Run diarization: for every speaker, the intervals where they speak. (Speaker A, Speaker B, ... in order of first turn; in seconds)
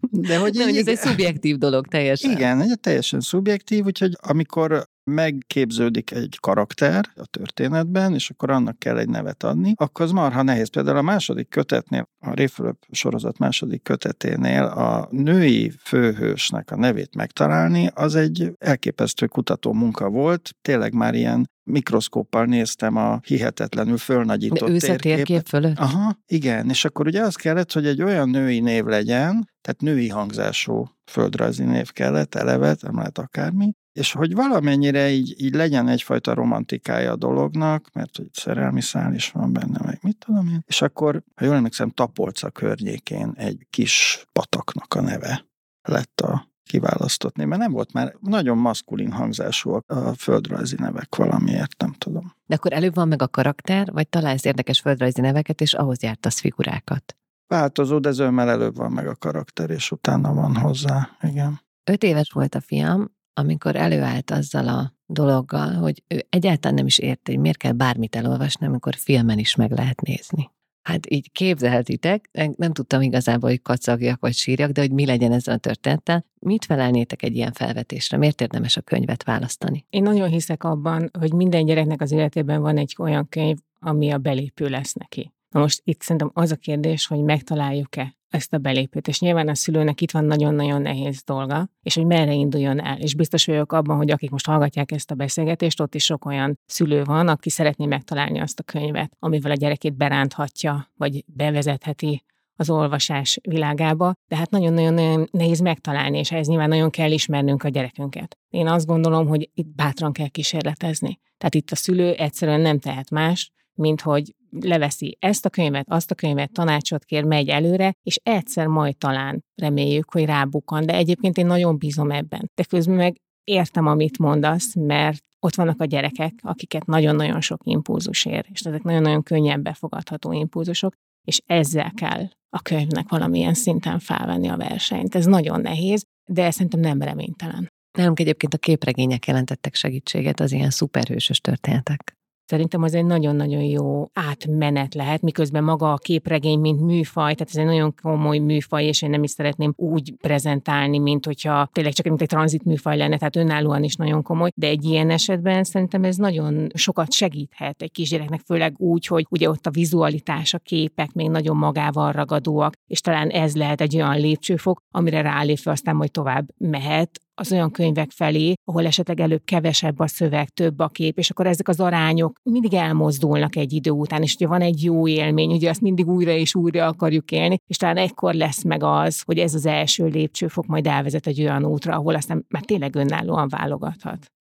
Speaker A: 0.1-1.3, 2.2-52.3, 57.5-61.6
Speaker B: 0.3-2.5, 24.5-25.8, 52.5-57.1, 61.9-79.8, 138.0-142.1
Speaker C: 79.9-137.7, 142.5-184.3